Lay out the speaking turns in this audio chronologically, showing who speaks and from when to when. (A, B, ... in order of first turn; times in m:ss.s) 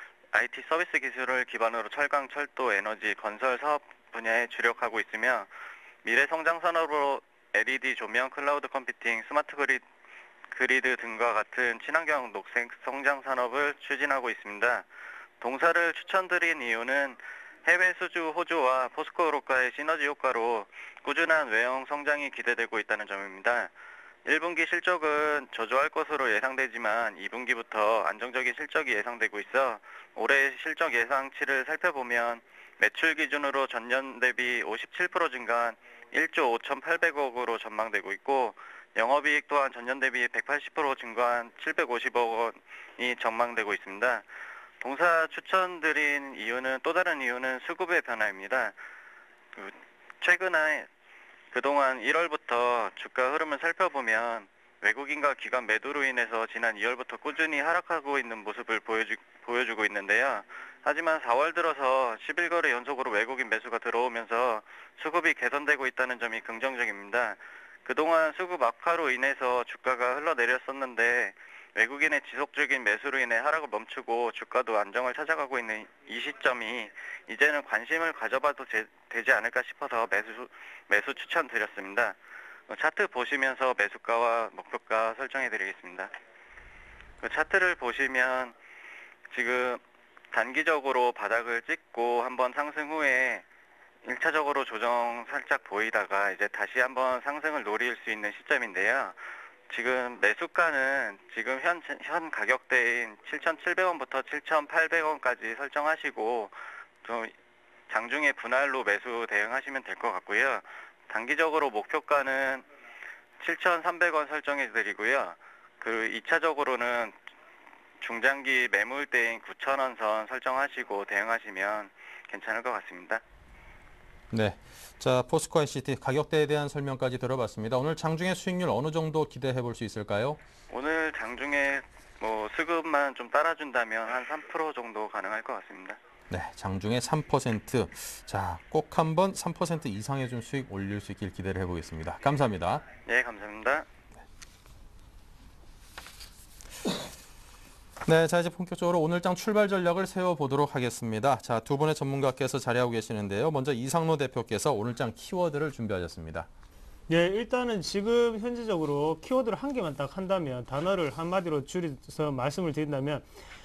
0:00.3-0:05.5 A
0:06.0-0:09.8 A
0:10.5-0:14.8 A
0:15.4-0:23.7 A
0:24.2-0:44.2 A
0:44.8-0:48.8 A
0:49.5-0:50.9 A
0:51.5-1:22.2 A
1:22.7-1:26.1 A
1:27.2-1:28.5 A
1:29.3-1:33.4 A
1:34.0-1:39.2 A
1:39.7-1:47.3 A
1:47.9-1:52.7 A
1:53.4-1:57.1 A
1:58.0-2:03.2 A
2:04.3-2:10.4 B
2:10.7-2:16.0 A
2:16.3-2:22.9 B
2:22.9-2:23.8 A
2:28.0-2:36.5 B
2:37.1-2:43.2 C